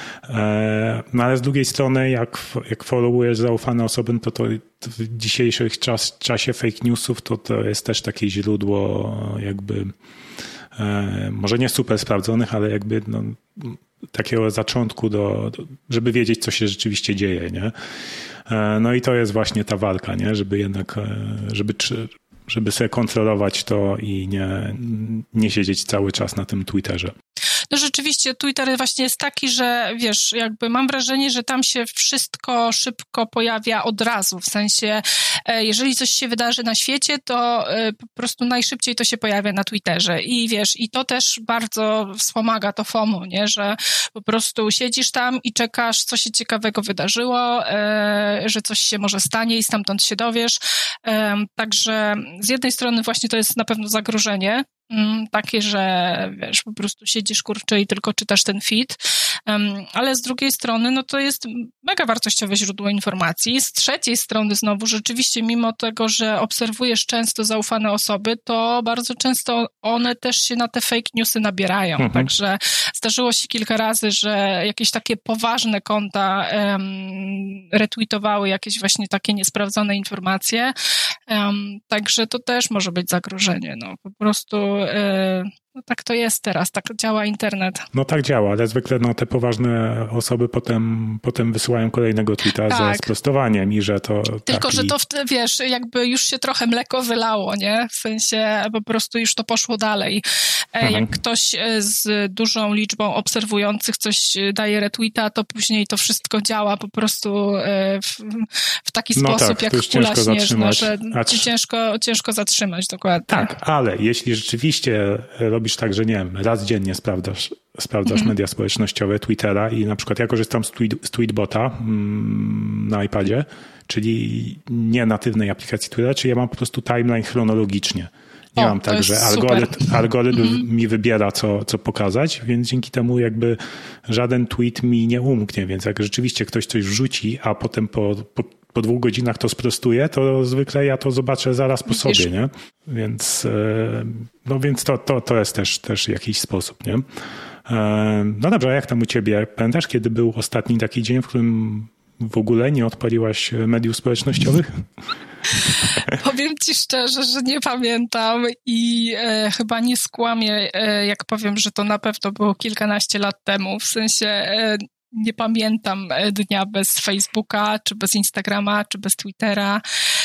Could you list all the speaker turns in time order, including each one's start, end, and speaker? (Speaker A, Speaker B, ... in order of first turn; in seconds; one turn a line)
Speaker A: 0.2-9.9
Speaker A: 10.7-17.7
Speaker A: 18.5-27.1
Speaker B: 27.7-80.7
Speaker A: 72.0-72.3
Speaker B: 81.3-87.8
Speaker A: 87.9-94.9
Speaker B: 92.6-93.1
Speaker B: 94.4-100.2
Speaker B: 100.7-113.5
Speaker A: 100.8-101.1
Speaker A: 109.2-111.5
Speaker A: 113.3-147.0
Speaker B: 118.0-118.3
Speaker B: 128.6-130.6
Speaker B: 141.9-142.2
Speaker A: 147.7-154.8
Speaker B: 155.5-169.8